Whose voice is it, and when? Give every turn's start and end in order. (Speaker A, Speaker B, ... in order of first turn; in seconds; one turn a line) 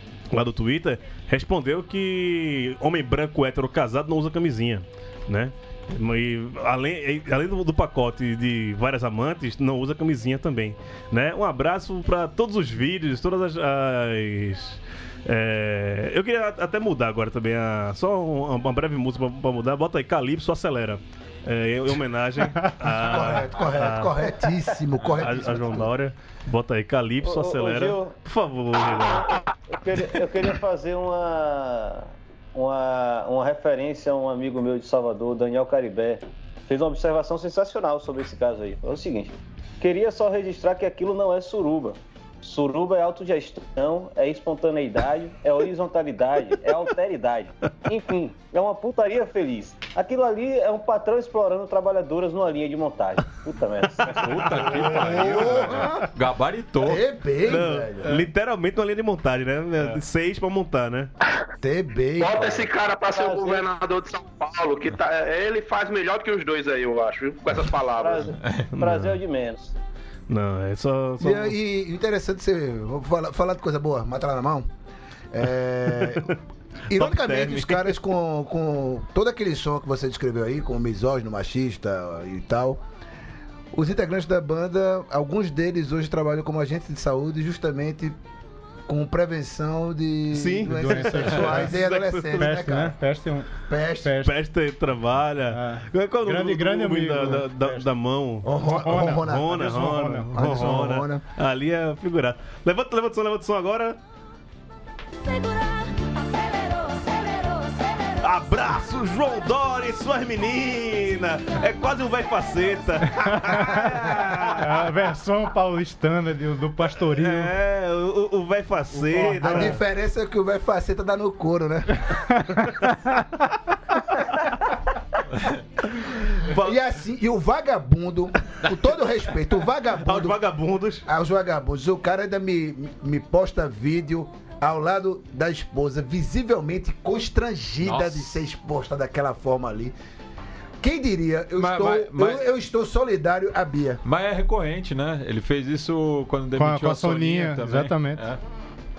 Speaker A: 0.3-24.3
Speaker B: 22.9-25.9
Speaker A: 25.2-29.4
Speaker C: 27.2-28.1
Speaker C: 29.7-55.0
Speaker D: 54.1-57.0
Speaker A: 54.4-55.8
Speaker B: 54.8-56.1
Speaker B: 56.8-58.3
Speaker A: 57.5-61.1
Speaker B: 61.6-62.7
Speaker E: 62.2-68.4
Speaker C: 63.1-63.6
Speaker C: 68.0-69.8
Speaker A: 68.7-69.2
Speaker A: 70.3-71.6
Speaker B: 71.2-74.7
Speaker B: 75.3-76.3
Speaker A: 76.0-76.4
Speaker B: 76.9-82.8
Speaker A: 76.9-78.0
Speaker B: 83.7-88.2
Speaker B: 88.9-93.0
Speaker A: 90.3-92.6
Speaker F: 90.6-91.8
Speaker F: 92.4-93.5
Speaker B: 93.6-94.2
Speaker F: 94.0-94.3
Speaker A: 94.2-104.0
Speaker F: 95.5-97.9
Speaker B: 98.4-99.7
Speaker F: 98.7-100.3
Speaker B: 100.3-101.2
Speaker A: 108.2-114.9
Speaker F: 113.1-117.5
Speaker A: 117.2-119.8
Speaker F: 119.0-119.8
Speaker B: 119.4-122.4
Speaker A: 126.5-126.8
Speaker B: 126.5-130.4
Speaker A: 130.0-131.1
Speaker B: 131.1-139.9
Speaker D: 137.8-138.3
Speaker B: 140.8-144.0
Speaker D: 141.6-142.4
Speaker D: 144.0-148.4
Speaker F: 146.5-148.3